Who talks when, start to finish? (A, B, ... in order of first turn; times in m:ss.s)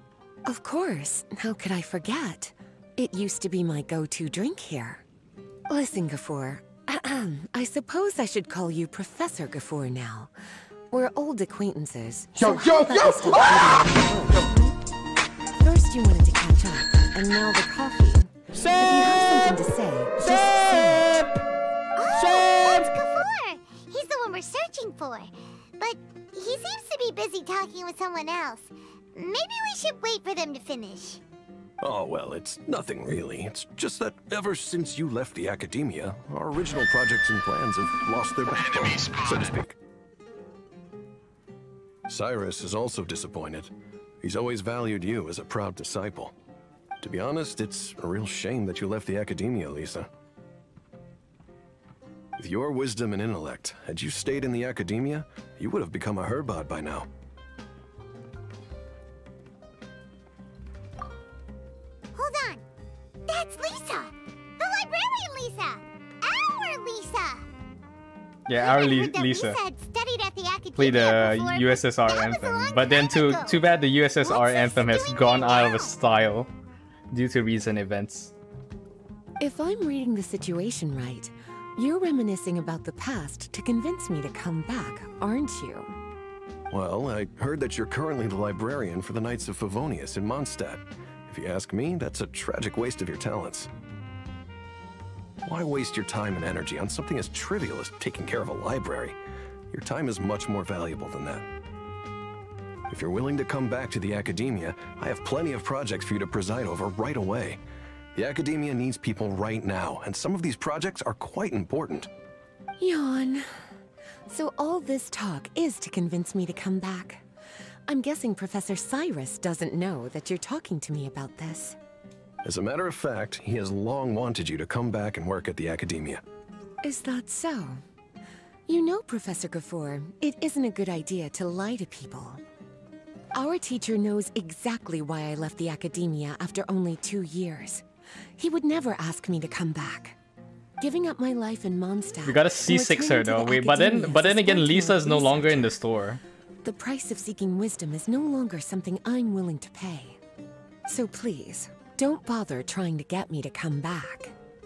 0:00.4-0:05.0 A
0:05.7-0:10.3 A
0:10.9-0:14.7 A
0:15.6-0:21.1 A
0:22.0-0:31.2 B
0:31.8-0:39.8 C
0:42.1-0:46.3 C
0:47.0-0:50.1 C
0:52.4-0:57.1 C
1:02.1-1:02.6 B
1:03.3-1:07.4 B
1:08.5-1:09.6 D
1:08.6-1:13.6 B
1:10.7-1:16.5 D
1:14.2-1:15.9 B
1:17.1-1:18.3 D
1:19.4-1:26.0 A
1:26.7-1:33.7 C
1:35.4-1:39.2 C
1:39.7-1:41.4 C
1:42.9-1:47.6 C
1:48.1-1:52.1 C
1:52.8-1:53.6 A
1:54.3-1:57.2 A
1:57.9-2:01.8 A
2:02.4-2:06.2 C
2:06.8-2:07.8 A
2:08.7-2:12.4 A
2:13.3-2:17.8 A
2:18.4-2:20.2 A
2:20.8-2:25.8 A
2:22.2-2:26.2 D
2:26.6-2:30.2 A
2:30.9-2:34.3 A